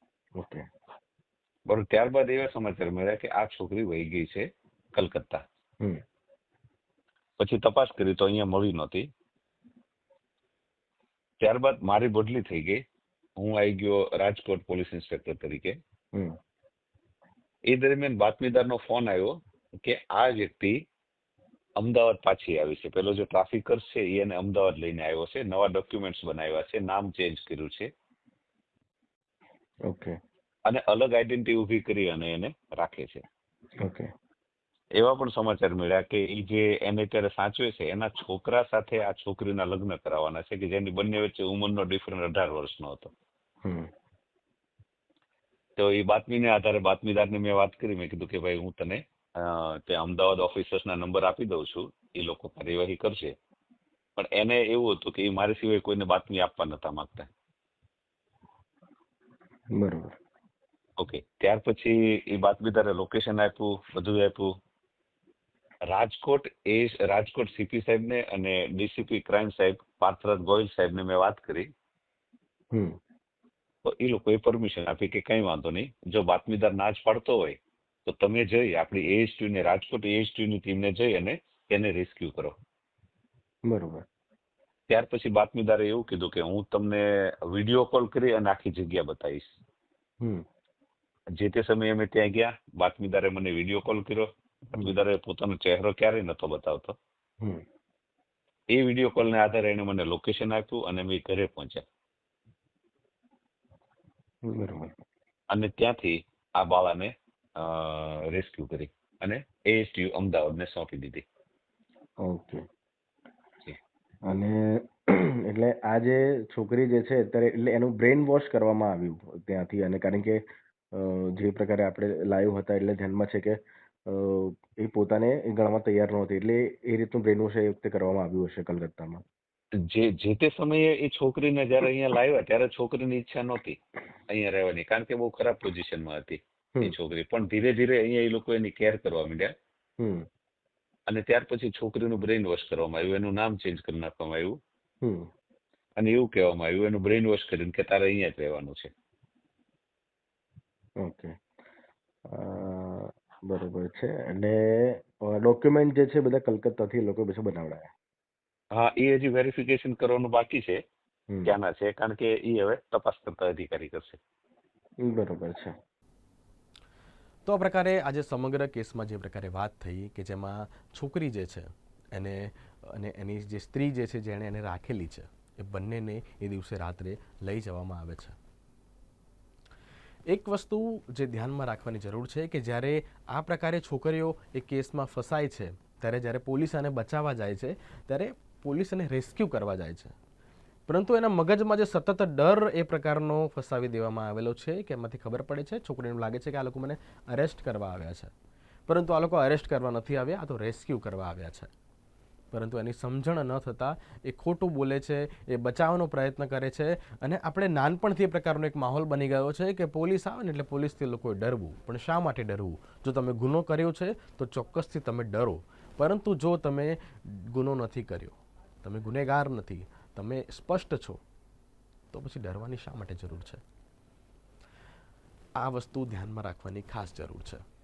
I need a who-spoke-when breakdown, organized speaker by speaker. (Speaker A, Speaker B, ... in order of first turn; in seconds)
Speaker A: 0.4-0.7, 16.1-16.4, 29.8-30.2, 33.8-34.1, 43.6-43.9, 59.7-60.1, 72.7-73.0, 83.7-84.0, 90.2-90.5, 104.4-104.9, 112.2-112.7, 114.2-129.2, 140.0-140.3, 145.0-145.3, 151.0-151.4, 152.3-157.9, 161.3-161.5, 165.0-165.8
Speaker B: 1.7-5.4, 7.4-9.1, 11.4-12.8, 13.4-15.8, 17.7-20.9, 21.8-27.9, 30.6-33.2, 35.0-43.1, 45.8-53.4, 54.2-57.3, 61.0-64.6, 65.9-71.7, 73.8-82.6, 84.9-89.5, 91.4-97.0, 98.7-101.8, 105.5-111.2, 129.8-133.8, 134.3-139.5, 141.1-144.6, 146.0-148.9, 158.7-160.8, 161.4-164.2
Speaker C: 167.4-178.4, 180.3-190.2, 190.9-198.3, 198.9-201.7, 202.5-221.2, 222.1-223.6, 225.6-227.6